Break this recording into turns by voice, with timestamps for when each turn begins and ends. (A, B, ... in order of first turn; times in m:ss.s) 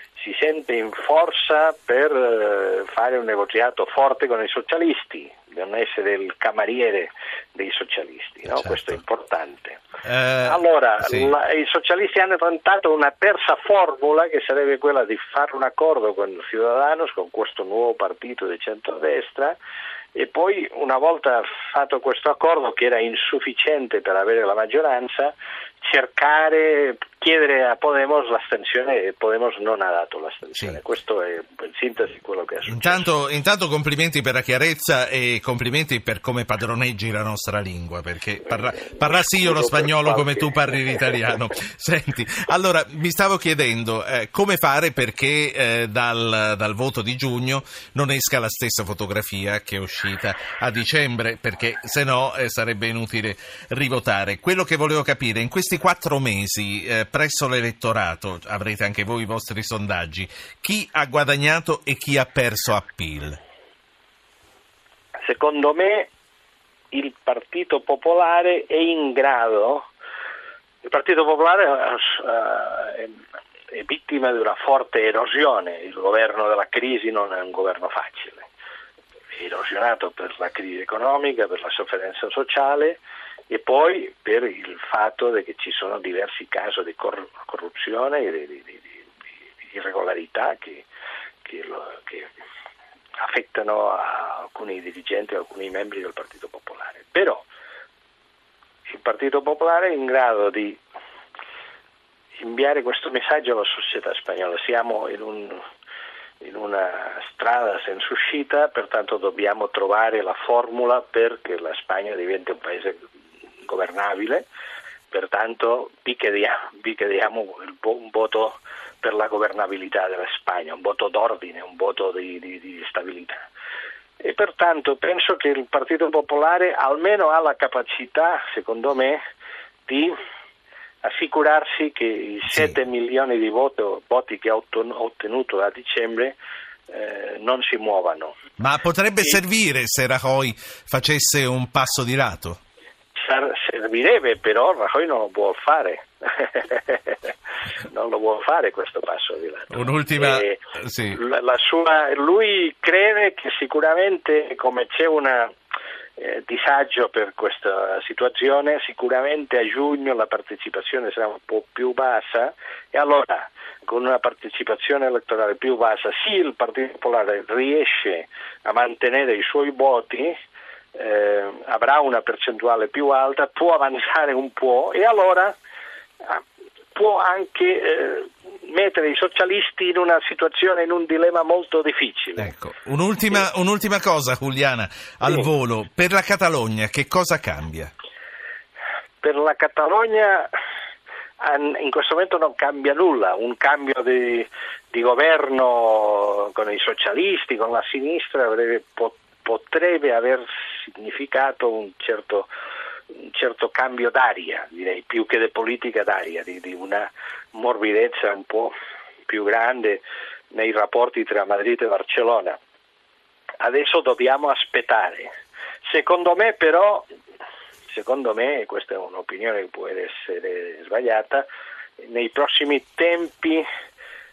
0:00.2-0:09.8 A
0:08.5-0:08.8 B
0:10.0-0:11.3 B
0:10.4-0:19.6 A
0:20.1-0:33.0 A
0:32.7-1:03.4 B
0:38.9-0:41.2 A
1:05.2-1:06.1 A
1:06.9-1:09.9 A
1:10.8-1:13.2 A
1:13.7-1:18.4 A
1:19.3-1:29.0 A
1:29.6-1:30.8 A
1:31.4-1:32.3 A
1:33.2-1:37.4 A
1:38.9-1:40.8 A
1:42.4-1:45.6 A
1:46.4-1:53.0 A
1:53.6-1:54.5 A
1:55.1-2:03.4 A
2:04.2-2:09.2 A
2:09.9-2:10.1 A
2:11.0-2:16.4 A
2:12.5-2:12.8 B
2:16.9-2:18.3 A
2:18.6-2:22.6 B
2:23.2-2:27.2 A
2:27.9-2:30.6 A
2:29.7-2:31.2 B
2:31.1-2:35.5 A
2:36.2-2:50.3 A
2:50.9-2:55.6 A
2:56.9-3:02.5 A
3:02.4-3:07.9 B
3:09.2-3:10.5 A
3:11.4-3:22.5 A
3:23.1-3:28.7 A
3:29.3-3:32.6 A
3:33.6-3:35.3 A
3:35.8-3:37.1 A
3:37.9-3:41.4 A
3:42.0-3:43.6 A